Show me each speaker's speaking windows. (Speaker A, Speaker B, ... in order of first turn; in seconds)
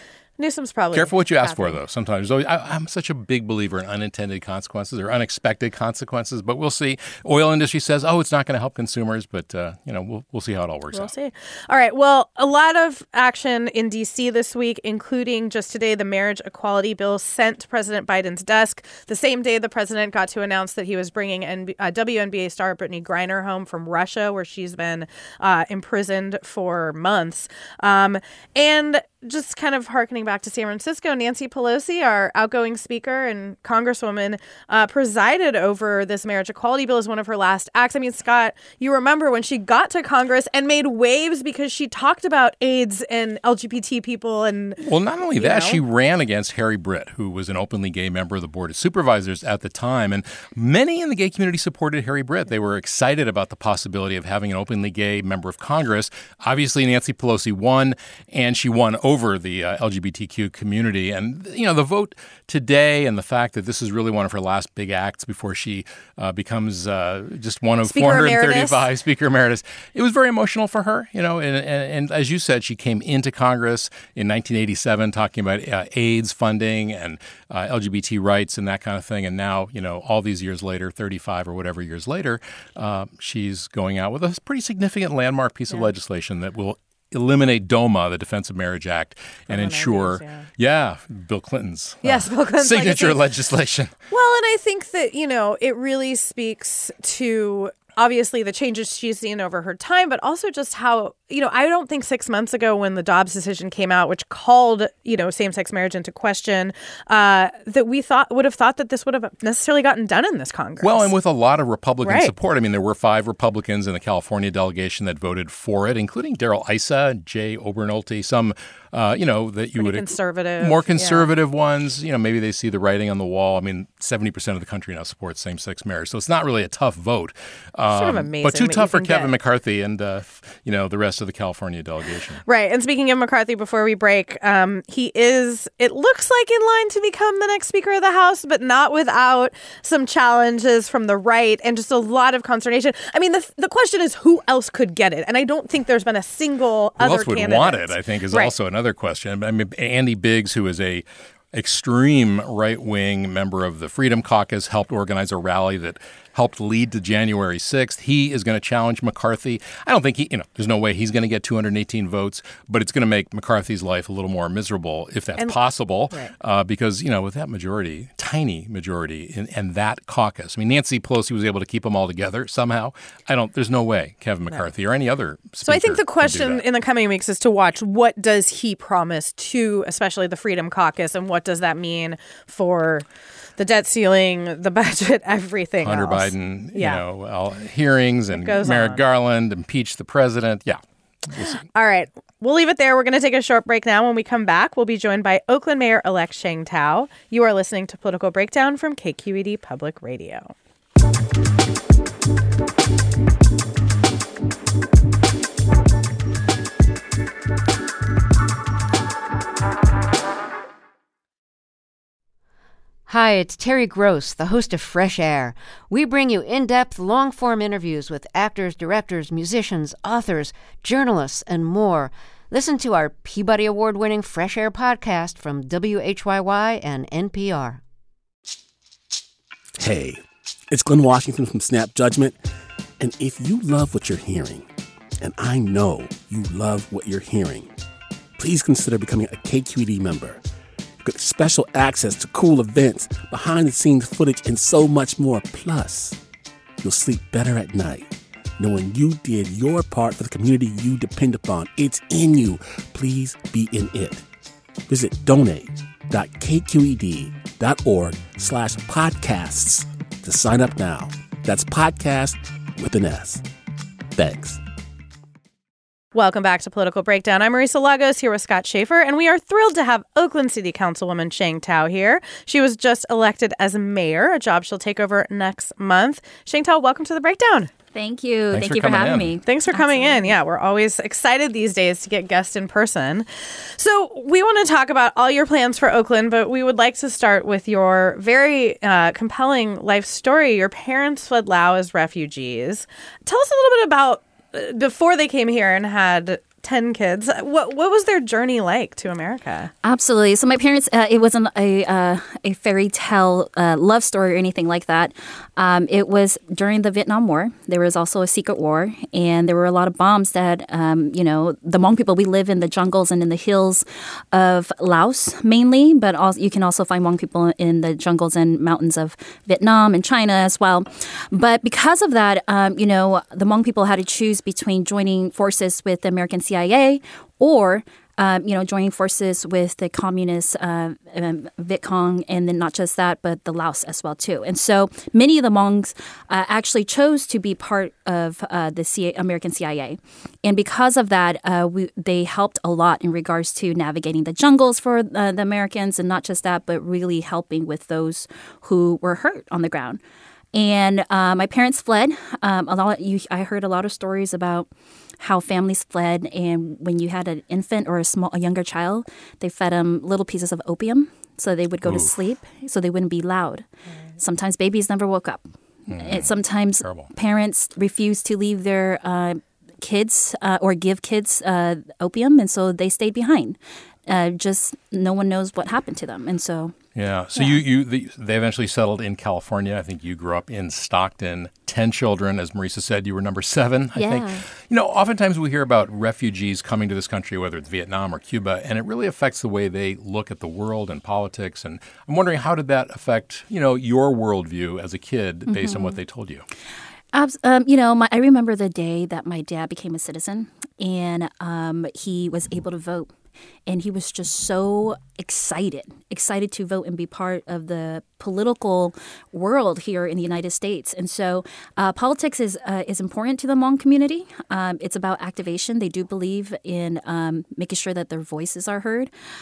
Speaker A: 0.4-1.8, 10.9-44.8, 45.4-45.8, 67.8-68.8, 89.5-90.5, 92.0-93.2, 94.1-111.1, 112.0-112.3, 119.8-121.3, 127.9-129.3, 132.4-148.5, 175.6-183.1, 183.6-187.0, 188.3-189.0, 191.4-200.5, 266.1-277.7, 279.4-299.7
Speaker B: 0.9-11.1, 44.8-93.9, 110.8-132.4, 147.0-176.7, 185.8-191.6, 278.5-279.4, 361.8-362.1, 365.9-367.1, 376.9-396.4
Speaker C: 213.1-227.8
Speaker D: 229.8-232.4, 233.0-234.7, 235.2-237.7, 238.4-240.4, 241.0-246.2, 246.8-254.2, 254.9-263.4, 264.1-264.6
Speaker E: 277.9-280.4, 299.8-350.0, 350.5-354.7, 355.2-363.7, 364.2-376.7, 383.9-384.4, 395.5-396.0, 397.1-403.1, 403.7-419.1